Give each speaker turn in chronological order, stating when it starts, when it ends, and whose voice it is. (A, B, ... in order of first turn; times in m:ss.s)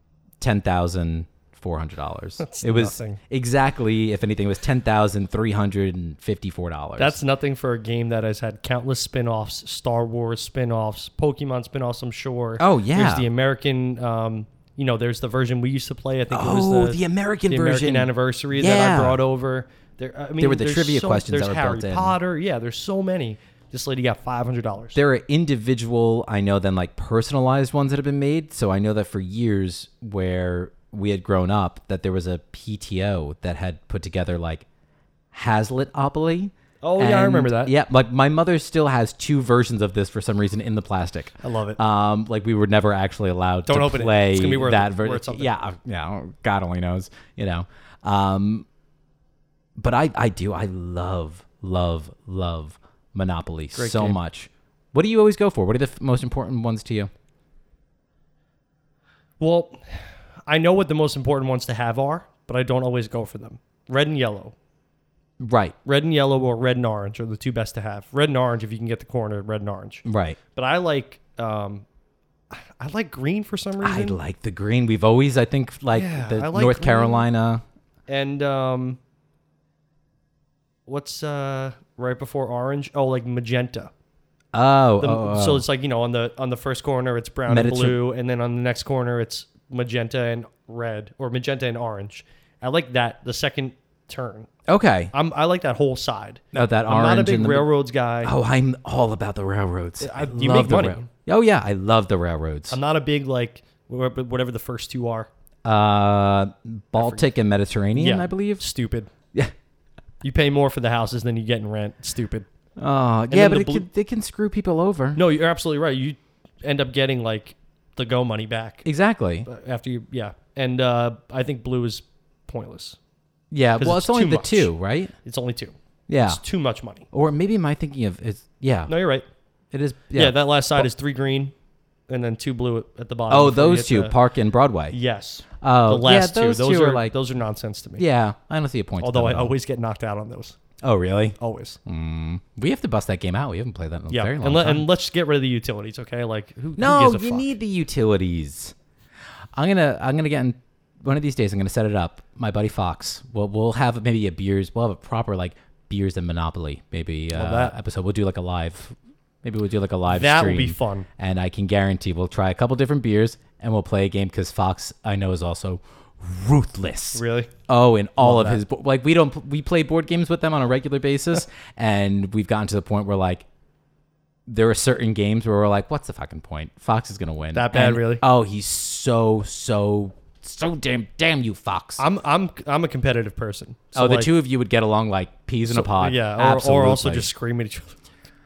0:00.4-0:07.2 A
0:02.4-0:03.2 B
0:07.0-0:25.0 B
0:12.6-0:13.3 A
0:16.3-0:19.2 A
0:20.4-0:22.2 A
0:25.0-0:34.6 A
0:35.3-0:48.6 A
0:36.8-0:37.7 B
0:41.4-0:41.8 B
0:43.7-0:45.5 B
0:49.8-0:57.1 A
0:53.8-0:54.2 B
0:59.4-1:04.6 B
1:05.4-1:05.8 A
1:05.8-1:11.8 B
1:10.0-1:10.4 A
1:12.5-1:14.2 B
1:13.8-1:17.6 A
1:15.9-1:17.2 B
1:18.1-1:19.0 B
1:20.9-1:23.9 B
1:24.5-1:25.6 A
1:25.0-1:34.5 B
1:27.5-1:28.0 A
1:34.7-1:35.1 A
1:35.1-1:38.3 B
1:36.5-1:37.7 A
1:38.2-1:42.8 A
1:40.0-1:41.1 B
1:42.7-1:45.3 B
1:45.6-1:48.6 A
1:47.0-1:47.3 B
1:47.9-1:49.1 B
1:50.2-1:52.5 B
1:52.8-1:55.2 A
1:53.3-1:53.9 B
1:55.1-1:58.8 B
1:58.8-1:59.5 A
1:59.5-2:03.0 B
2:03.5-2:05.1 A
2:03.8-2:04.7 B
2:05.2-2:07.1 B
2:06.1-2:06.4 A
2:07.1-2:08.9 A
2:08.9-2:09.2 B
2:09.7-2:10.9 A
2:10.1-2:11.5 B
2:12.1-2:14.2 B
2:13.3-2:15.0 A
2:14.9-2:18.0 B
2:15.6-2:17.1 A
2:18.0-2:19.5 A
2:19.0-2:20.6 B
2:20.8-2:24.9 A
2:21.4-2:21.8 B
2:24.1-2:27.5 B
2:26.8-2:28.8 A
2:29.6-2:53.5 A
2:37.3-2:37.8 B
2:40.1-2:41.1 B
2:47.1-2:47.5 B
2:48.2-2:48.6 B
2:54.5-3:02.0 A
2:57.5-2:58.2 B
3:02.0-3:04.3 B
3:04.0-3:07.3 A
3:05.6-3:08.0 B